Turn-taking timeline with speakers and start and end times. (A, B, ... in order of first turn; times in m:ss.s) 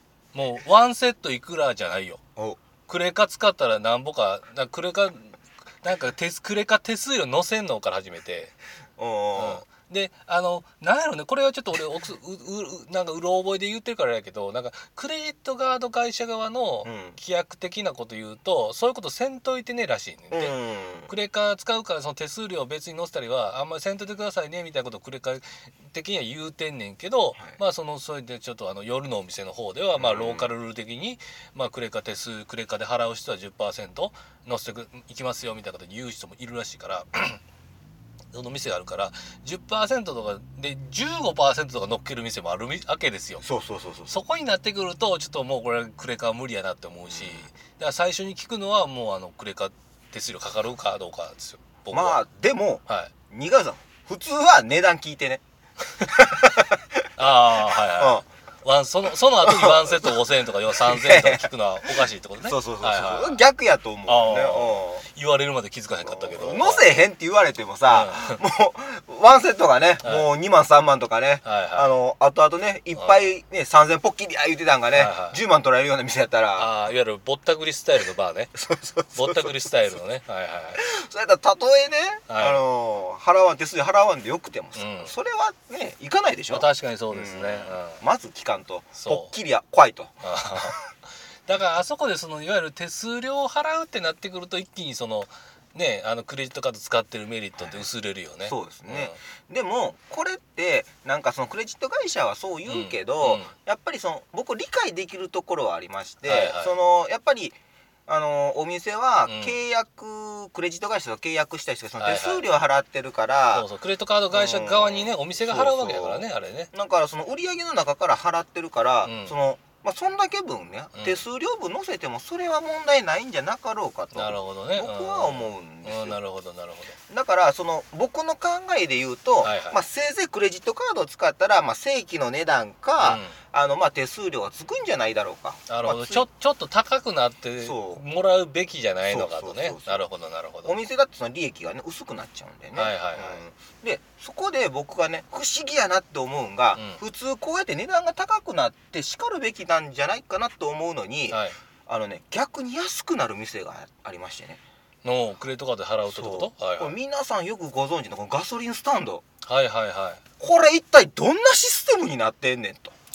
0:00.3-0:02.2 A
0:02.9-0:08.6 A
0:09.0-0:09.7 B
0:09.4-0:20.5 A
0:16.8-0:17.2 B
0:20.3-0:21.1 B
0:21.1-0:37.4 A
0:30.0-0:30.5 B
0:38.3-0:43.4 A
0:43.4-0:44.2 B
0:44.1-0:52.2 A
0:47.1-0:47.5 B
0:51.9-0:55.4 B
0:56.1-0:56.8 B
0:57.2-1:03.4 A
0:58.0-0:58.2 B
0:59.4-1:00.2 B
1:00.8-1:01.5 B
1:02.4-1:05.0 B
1:04.1-1:06.9 A
1:06.1-1:16.8 B
1:07.9-1:08.4 A
1:10.0-1:10.3 A
1:11.4-1:11.9 A
1:13.0-1:13.3 A
1:14.9-1:15.4 A
1:16.6-1:18.5 A
1:18.6-1:19.7 B
1:19.1-1:20.8 A
1:20.8-1:30.7 B
1:22.3-1:22.6 A
1:24.8-1:25.1 A
1:26.5-1:28.0 A
1:29.0-1:29.3 A
1:30.2-1:30.8 A
1:31.5-1:39.2 A
1:37.6-1:37.9 B
1:38.4-1:47.6 B
1:42.7-1:43.5 A
1:46.2-1:46.8 A
1:48.1-1:53.7 B
1:49.2-1:49.6 A
1:52.0-1:52.5 A
1:53.5-1:56.7 A
1:54.3-2:06.2 B
1:59.0-1:59.4 A
2:01.0-2:01.2 A
2:04.1-2:07.0 A
2:07.1-2:16.3 B
2:09.4-2:09.8 A
2:13.0-2:13.4 A
2:15.7-2:20.8 A
2:17.6-2:18.0 B
2:19.1-2:20.1 B
2:20.6-2:34.6 B
2:22.8-2:23.4 A
2:26.7-2:27.0 A
2:31.3-2:31.6 A
2:35.0-2:37.0 A
2:36.1-2:39.2 B
2:39.4-2:40.2 A
2:40.4-2:43.0 B